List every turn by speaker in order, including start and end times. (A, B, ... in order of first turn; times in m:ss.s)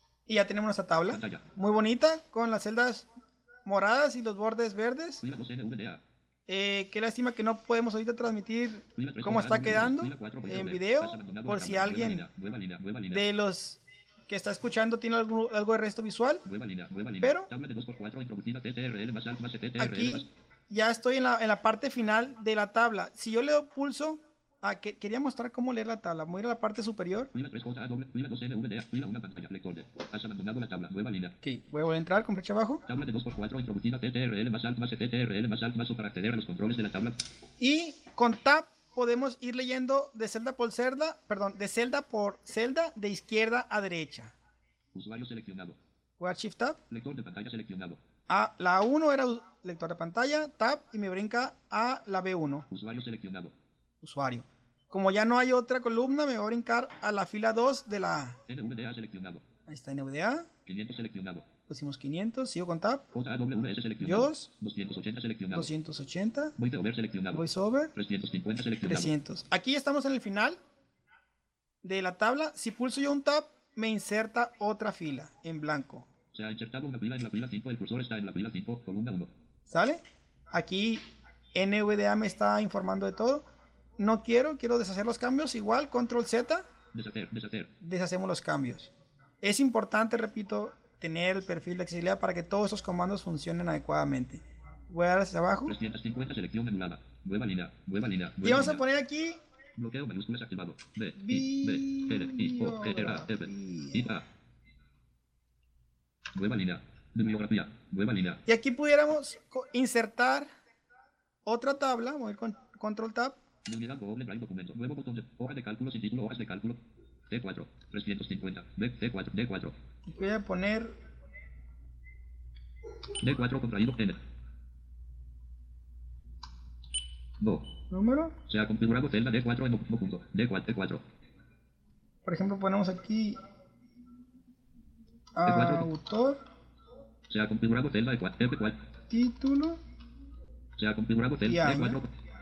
0:00.3-0:03.0 A
0:01.1-0:01.4 B
0:03.6-0:05.2 A
0:05.2-0:06.0 B
0:06.5-0:12.3 A
0:09.0-0:13.2 B
0:13.1-0:16.4 A
0:16.4-0:20.3 B
0:17.2-0:17.5 A
0:19.8-0:27.3 A
0:27.3-0:31.4 B
0:31.4-0:32.8 A
0:32.9-0:37.2 B
0:37.6-0:44.3 A
0:44.9-0:45.8 B
0:46.2-0:46.8 A
0:46.9-0:48.0 B
0:48.3-0:52.6 A
0:52.7-0:53.5 B
0:54.0-0:58.4 A
0:58.5-0:59.4 B
0:59.7-1:00.5 A
1:00.6-1:01.4 B
1:01.7-1:03.0 A
1:03.1-1:05.7 B
1:04.0-1:04.5 A
1:05.5-1:06.5 A
1:06.6-1:09.1 B
1:07.3-1:07.9 A
1:08.8-1:10.6 A
1:11.8-1:16.0 A
1:16.3-1:19.3 B
1:19.7-1:23.4 A
1:24.0-1:26.6 A
1:26.9-1:27.7 B
1:27.8-1:35.8 A
1:35.7-1:38.8 B
1:38.4-1:39.4 A
1:39.8-1:44.2 B
1:41.2-1:44.1 A
1:46.3-1:48.4 B
1:48.4-1:50.5 A
1:51.4-1:53.4 A
1:53.6-1:59.8 B
2:00.0-2:00.9 A
2:03.2-2:04.2 B
2:07.4-2:07.7 B
2:07.9-2:08.3 A
2:08.5-2:11.0 B
2:12.2-2:13.4 A
2:15.4-2:16.4 A
2:15.4-2:15.9 B
2:17.3-2:18.8 B
2:19.1-2:19.8 A
2:20.8-2:22.1 B
2:21.4-2:22.0 A